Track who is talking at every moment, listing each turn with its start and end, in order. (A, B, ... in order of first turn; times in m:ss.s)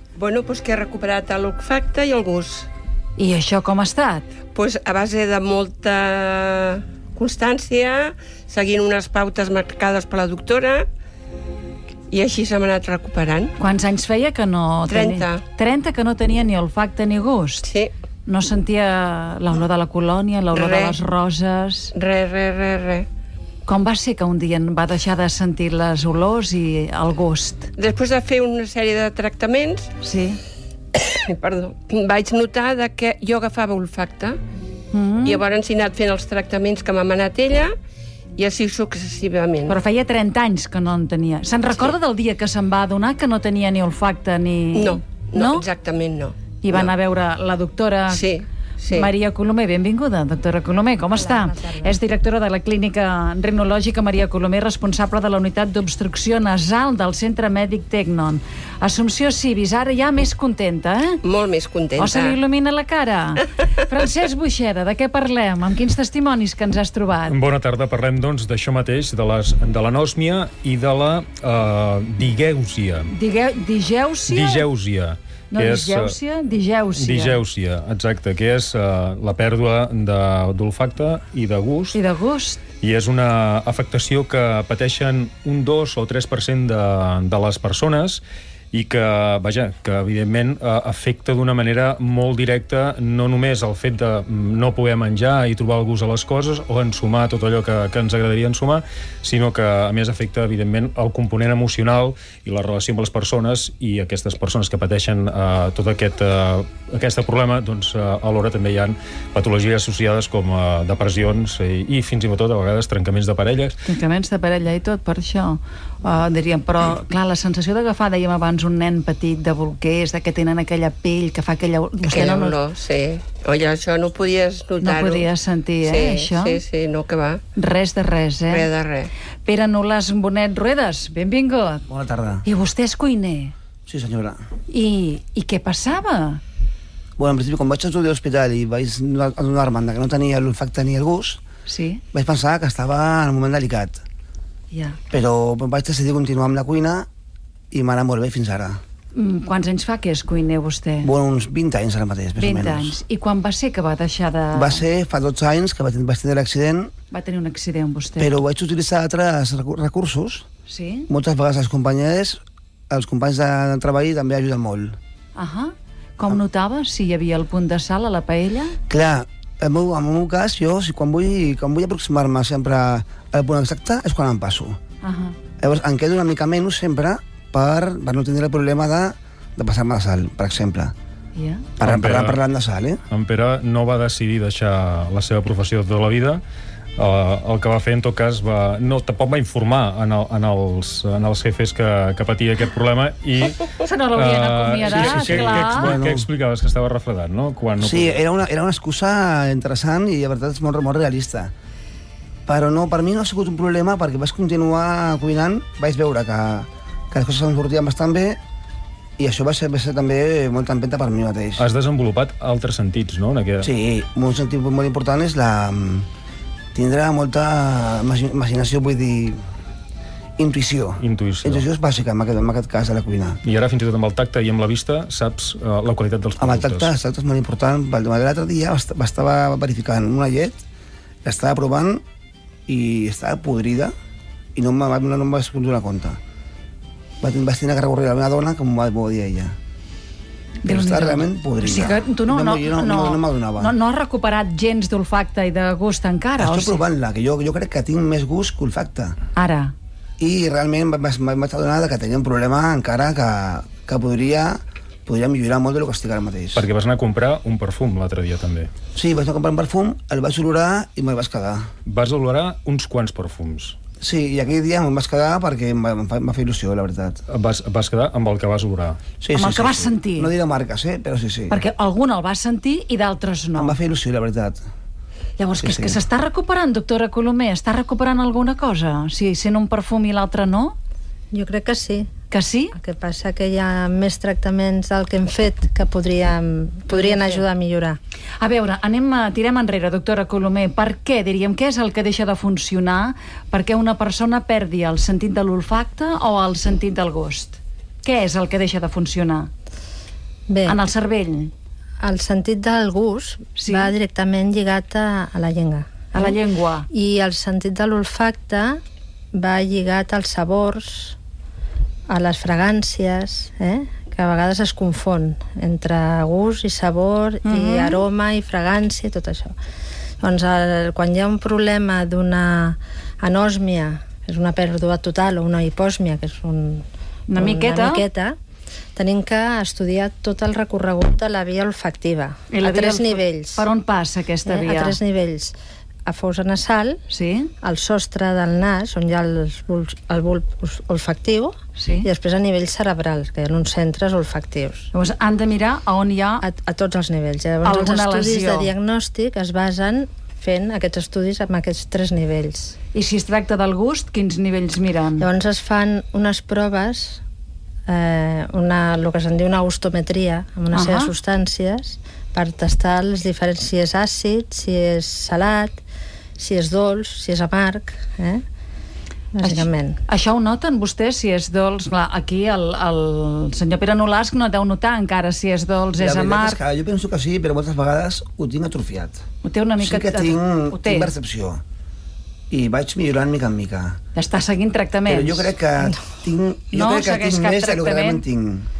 0:00.2-0:02.7 A
0:03.2-0:04.2 B
0:04.5-0:10.9 A
0:12.1-0:13.5 A
0:13.6-0:17.7 B
0:14.9-0:15.4 A
0:17.6-0:17.9 A
0:18.2-0:21.9 B
0:20.5-0:21.0 A
0:21.9-0:23.1 A
0:23.6-0:27.7 B
0:27.8-0:29.9 A
0:30.0-0:30.4 B
0:30.9-0:34.4 A
0:34.9-0:35.4 B
0:35.2-0:37.7 A
0:38.4-0:39.8 A
0:39.7-0:45.6 B
0:44.7-0:46.9 A
0:46.6-0:48.2 B
0:48.1-0:49.1 A
0:48.9-1:01.2 B
0:51.2-0:51.9 C
1:01.2-1:02.4 A
1:02.0-1:07.4 B
1:07.3-1:13.1 D
1:13.1-1:14.7 B
1:14.3-1:16.1 D
1:15.5-1:17.4 B
1:17.0-1:22.0 D
1:21.9-1:22.6 B
1:22.8-1:53.8 D
1:53.8-2:02.6 B
2:02.0-2:05.3 A
2:04.8-2:06.6 B
2:05.8-2:07.4 A
2:07.6-2:08.7 B
2:08.5-2:09.1 A
2:09.4-2:11.8 B
2:11.9-2:12.4 E
2:12.4-2:13.5 B
2:13.9-2:14.4 E
2:14.7-2:16.4 B
2:17.2-2:21.4 E
2:21.6-2:22.0 B
2:22.1-2:24.0 E
2:24.7-2:25.0 B
2:25.1-2:27.1 E
2:27.7-2:28.8 E
2:29.1-2:31.1 B
2:31.0-2:33.0 E
2:32.4-2:34.8 B
2:34.5-2:36.9 E
2:37.1-2:38.3 B
2:38.2-2:40.4 E
2:40.7-2:41.1 B
2:41.1-2:45.0 E
2:45.3-2:48.8 B
2:48.9-2:54.8 E
2:55.0-2:55.4 B
2:55.6-3:00.9 E
3:01.4-3:01.7 B
3:01.8-3:03.0 E
3:01.8-3:02.4 D
3:03.1-3:06.4 D
3:07.0-3:18.2 D
3:13.8-3:15.9 B
3:14.9-3:16.2 E
3:17.8-3:21.5 E
3:22.4-3:28.4 E
3:29.2-3:31.6 E
3:31.6-3:33.7 D
3:33.6-3:36.1 E
3:36.7-3:39.4 E
3:40.4-3:43.4 E
3:41.0-3:41.6 D
3:43.4-3:46.9 D
3:46.4-3:50.6 E
3:51.2-3:52.0 E
3:52.7-3:53.9 E
3:54.6-3:56.2 E
3:57.2-3:59.5 E
4:00.6-4:06.8 B
4:00.6-4:03.7 E
4:06.4-4:09.2 E
4:09.3-4:09.7 B
4:10.2-4:16.6 E
4:16.5-4:18.7 D
4:18.9-4:21.7 E
4:21.8-4:23.8 D
4:24.0-4:27.2 E
4:27.3-4:29.0 D
4:29.2-4:31.6 E
4:29.3-4:30.3 B
4:31.5-4:33.8 B
4:33.6-4:34.6 E
4:35.4-4:40.7 B
4:35.6-4:36.0 E
4:41.3-4:42.1 C
4:42.3-4:42.7 B
4:42.8-4:48.0 C
4:46.9-4:47.4 B
4:48.4-4:59.5 B
5:00.5-5:00.8 C
5:00.6-5:01.5 B
5:02.0-5:06.4 C
5:03.6-5:03.9 B
5:06.1-5:06.9 B
5:06.9-5:08.8 C
5:09.3-5:11.2 C
5:12.1-5:19.5 C
5:17.4-5:18.0 B
5:20.2-5:26.8 C
5:27.3-5:28.0 B
5:27.4-5:28.4 C
5:29.0-5:33.6 C
5:32.5-5:35.0 B
5:34.4-5:35.5 C
5:36.0-5:37.0 C
5:37.1-5:37.5 B
5:37.6-5:44.9 C
5:41.8-5:42.1 B
5:44.9-5:46.4 B
5:46.4-5:52.7 C
5:47.6-5:48.7 B
5:52.9-5:55.2 B
5:55.2-5:57.2 C
5:57.9-6:05.8 C
6:00.7-6:01.1 B
6:06.4-6:08.4 C
6:09.3-6:10.0 C
6:09.4-6:16.6 B
6:16.0-6:19.2 E
6:19.4-6:21.1 B
6:19.8-6:21.6 E
6:22.5-6:24.0 E
6:24.1-6:25.5 B
6:25.1-6:28.7 E
6:26.7-6:28.2 B